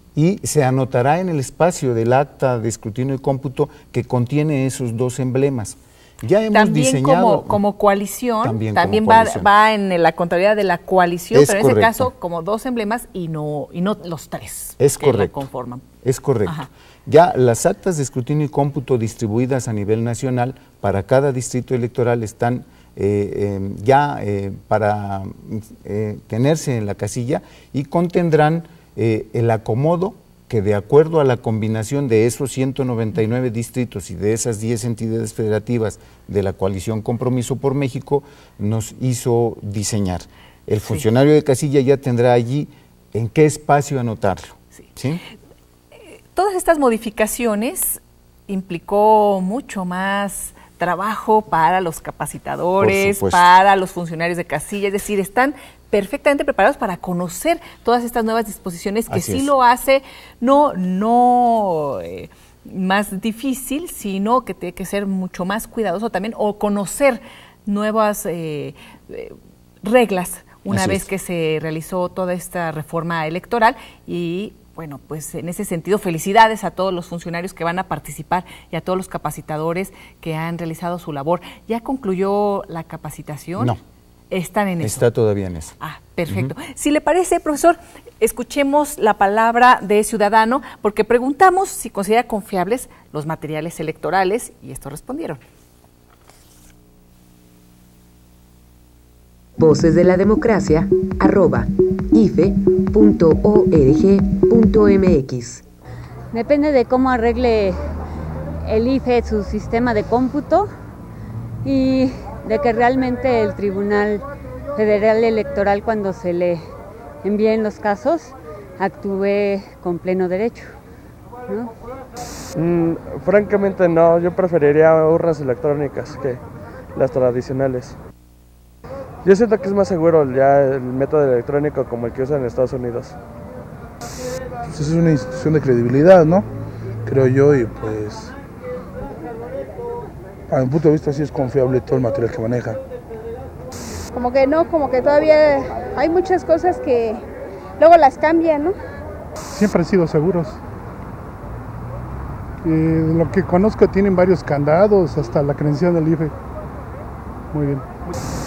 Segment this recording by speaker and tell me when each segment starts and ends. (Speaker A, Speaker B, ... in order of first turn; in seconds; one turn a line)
Speaker A: 0.1-7.6
Speaker B: 6.5-15.8
Speaker A: 8.4-9.5
Speaker A: 11.3-12.1
Speaker A: 14.8-15.4
Speaker A: 16.0-45.2
Speaker B: 46.3-83.7
Speaker A: 52.8-53.5
Speaker A: 59.1-59.5
Speaker A: 70.7-71.1
Speaker B: 84.3-85.1
Speaker A: 84.8-85.7
Speaker B: 85.8-95.4
Speaker A: 86.3-86.5
Speaker C: 99.6-105.6
Speaker D: 106.3-107.8
Speaker D: 108.6-110.7
Speaker D: 111.6-114.2
Speaker D: 114.8-116.7
Speaker D: 117.2-120.7
Speaker D: 121.5-121.7
Speaker E: 122.5-126.4
Speaker E: 126.9-128.0
Speaker E: 129.2-133.2
Speaker F: 134.7-136.5
Speaker F: 137.0-138.3
Speaker F: 140.5-142.8
Speaker G: 144.1-147.2
Speaker G: 147.8-148.8
Speaker H: 149.5-150.6
Speaker H: 152.6-156.3
Speaker H: 157.5-157.8